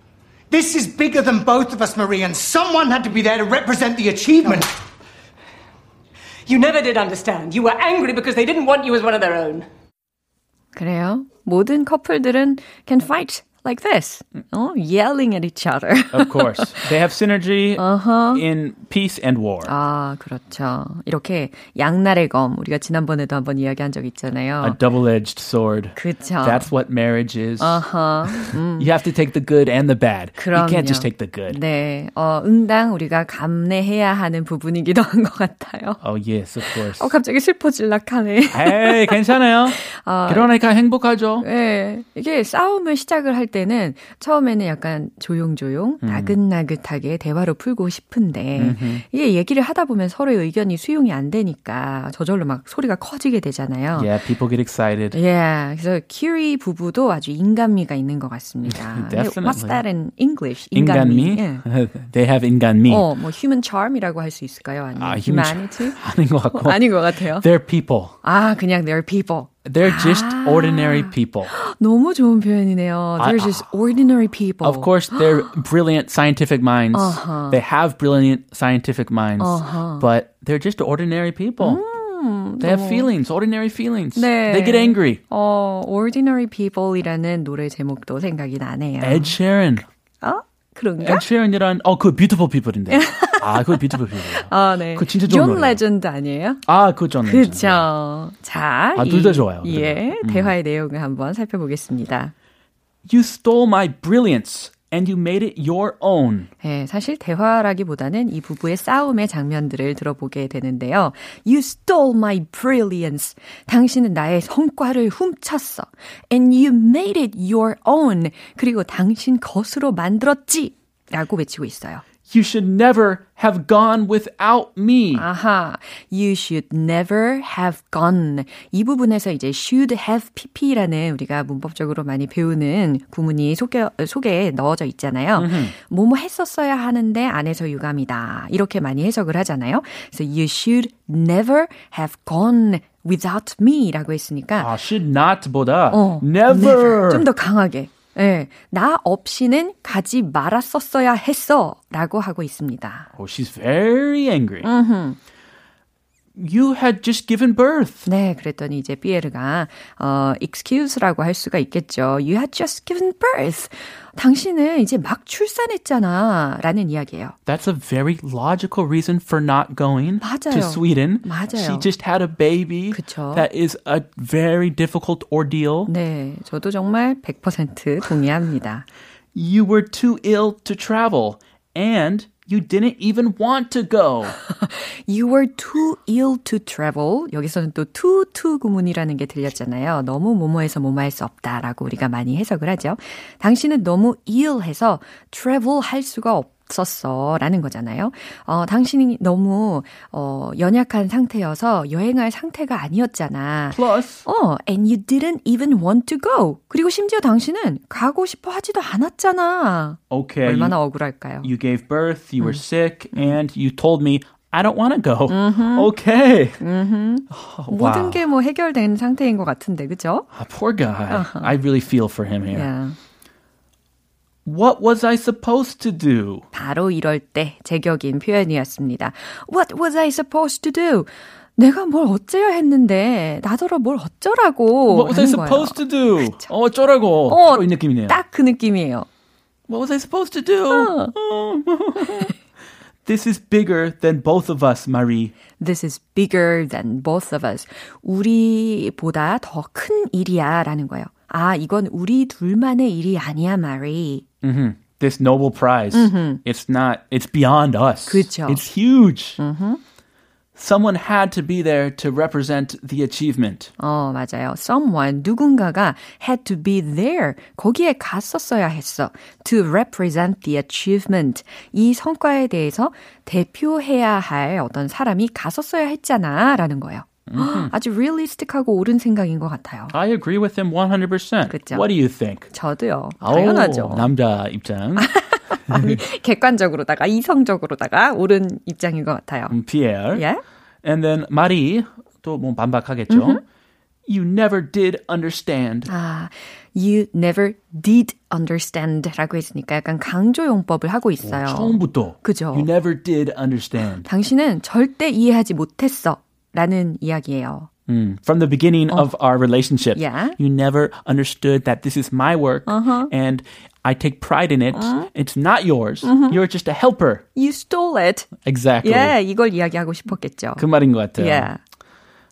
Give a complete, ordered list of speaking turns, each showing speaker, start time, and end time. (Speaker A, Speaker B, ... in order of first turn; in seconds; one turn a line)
Speaker A: 0.5-4.7
Speaker B: 6.5-9.7
Speaker C: 10.8-16.9
Speaker D: 16.1-19.7
Speaker C: 17.8-18.4
Speaker C: 19.6-24.8
Speaker D: 24.6-31.6
Speaker C: 25.9-26.7
Speaker C: 27.6-28.9
Speaker C: 30.4-36.0
Speaker D: 36.0-37.1
Speaker C: 36.7-40.5
Speaker D: 38.5-41.5
Speaker C: 41.4-54.1
Speaker D: 46.0-46.4
Speaker D: 48.6-49.0
Speaker D: 54.0-55.2
Speaker C: 55.1-61.6
Speaker D: 58.7-59.8
Speaker D: 60.7-63.1
Speaker C: 62.9-66.0
Speaker D: 65.0-68.2
Speaker C: 66.5-67.5
Speaker C: 68.2-75.5
Speaker D: 69.7-71.5
Speaker D: 73.2-73.7
Speaker D: 74.6-81.8
Speaker C: 76.9-77.6
Speaker C: 79.4-80.1
Speaker C: 81.6-83.1
Speaker D: 82.6-85.2
Speaker C: 84.2-89.4
Speaker D: 89.0-89.9
Speaker C: 90.2-91.2
Speaker D: 91.0-95.8
Speaker C: 92.9-96.6
Speaker D: 96.7-97.9
Speaker C: 97.2-102.3
Speaker D: 99.0-100.5
Speaker D: 103.1-106.5
Speaker C: 106.6-122.0
Speaker D: 122.3-125.3
Speaker C: 125.2-144.7
Speaker D: 135.3-135.8
Speaker D: 144.6-147.3
Speaker C: 145.9-153.1
Speaker D: 153.2-154.7
Speaker C: 154.6-155.2
Speaker D: 156.3-158.1
Speaker C: 158.1-167.4
Speaker D: 167.5-175.9
Speaker C: 170.2-171.9
Speaker C: 172.9-173.5
Speaker C: 175.9-178.8
Speaker D: 179.3-184.4
Speaker C: 184.5-211.5
Speaker D: 203.7-204.2
Speaker D: 210.1-210.8
Speaker D: 211.4-216.6
Speaker C: 215.3-215.9
Speaker C: 216.6-220.3
Speaker D: 217.3-218.2
Speaker D: 220.3-222.7
Speaker C: 221.1-221.5
Speaker C: 222.5-223.0
Speaker D: 224.4-226.4
Speaker C: 226.5-236.5
Speaker D: 234.9-238.2
Speaker C: 237.3-239.1
Speaker D: 239.7-242.3
Speaker C: 240.7-241.1
Speaker C: 242.0-242.3
Speaker D: 243.1-245.3
Speaker C: 245.6-254.2
Speaker D: 254.4-259.4
Speaker C: 255.9-256.4
Speaker C: 258.1-258.6
Speaker C: 259.4-259.8
Speaker D: 260.6-263.7
Speaker C: 263.8-279.9
Speaker D: 277.3-277.7
Speaker D: 279.9-282.5
Speaker C: 281.5-281.8
Speaker C: 282.5-284.1
Speaker D: 283.2-285.1
Speaker C: 285.0-289.6
Speaker D: 285.7-286.0
Speaker D: 289.5-290.2
Speaker C: 290.1-290.4
Speaker D: 290.8-293.4
Speaker C: 293.1-293.4
Speaker D: 294.1-295.9
Speaker C: 295.9-302.7
Speaker D: 301.2-304.1
Speaker C: 304.1-307.7
Speaker D: 307.9-317.2
Speaker C: 309.9-310.4
Speaker C: 312.7-313.1
Speaker C: 314.8-315.1
Speaker C: 316.0-316.4
Speaker C: 317.4-318.3
Speaker D: 318.4-319.1
Speaker C: 318.8-320.6
Speaker D: 320.6-321.5
Speaker C: 321.1-321.6